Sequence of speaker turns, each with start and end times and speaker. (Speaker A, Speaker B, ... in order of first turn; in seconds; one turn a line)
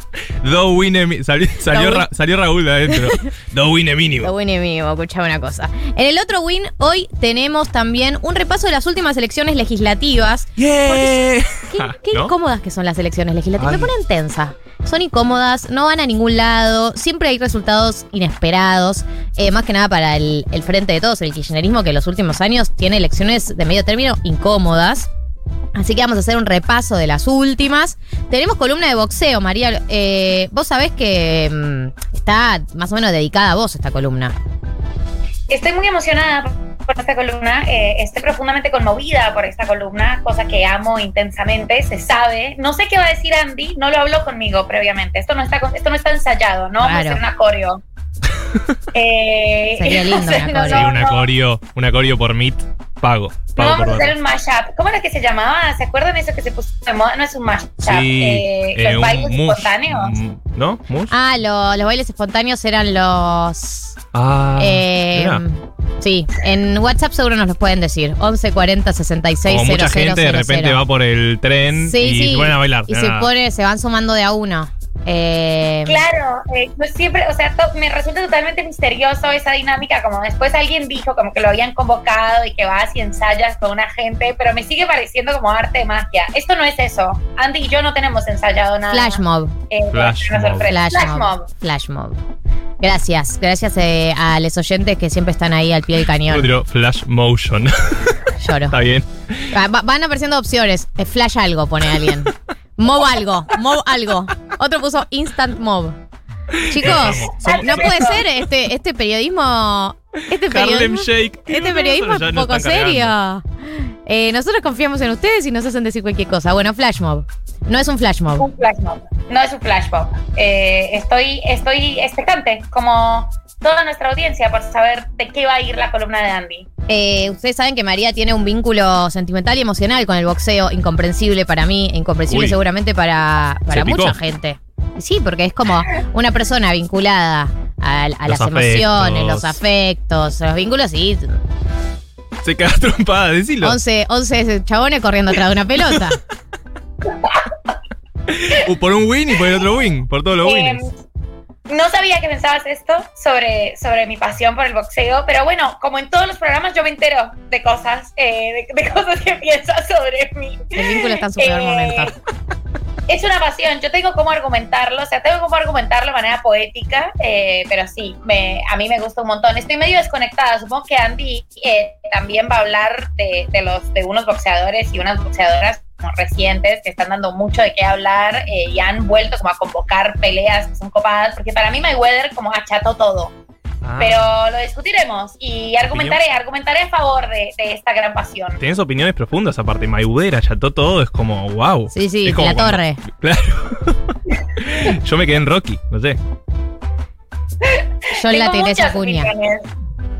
Speaker A: 0.4-4.3
Speaker B: 1.7-2.1
Speaker B: 4.2-25.1
Speaker A: 10.6-12.3
Speaker A: 13.6-13.9
Speaker B: 25.7-34.3
Speaker C: 35.5-47.8
Speaker B: 46.8-47.2
Speaker C: 48.9-51.3
Speaker B: 49.8-50.9
Speaker A: 50.7-54.1
Speaker C: 53.5-60.1
Speaker A: 57.8-61.1
Speaker B: 61.1-64.0
Speaker A: 64.1-65.4
Speaker B: 64.6-70.8
Speaker A: 69.5-73.3
Speaker B: 71.7-76.0
Speaker C: 75.8-91.5
Speaker B: 88.9-89.5
Speaker A: 89.9-90.7
Speaker B: 90.7-92.2
Speaker B: 92.8-96.5
Speaker A: 96.3-99.4
Speaker B: 98.4-98.8
Speaker B: 99.5-106.0
Speaker A: 106.5-108.1
Speaker B: 106.7-118.5
Speaker C: 107.0-108.2
Speaker A: 110.3-113.1
Speaker C: 118.4-126.7
Speaker B: 126.9-141.4
Speaker A: 132.3-132.6
Speaker A: 133.7-134.2
Speaker A: 138.3-139.6
Speaker A: 142.4-143.8
Speaker B: 143.6-146.2
Speaker A: 148.3-150.8
Speaker C: 150.4-150.9
Speaker C: 151.7-160.6
Speaker B: 160.8-162.1
Speaker C: 161.3-162.1
Speaker C: 163.1-183.3
Speaker A: 183.8-184.3
Speaker C: 184.0-188.6
Speaker A: 185.8-186.2
Speaker A: 188.6-196.2
Speaker B: 191.9-193.0
Speaker C: 197.6-199.7
Speaker B: 198.1-199.3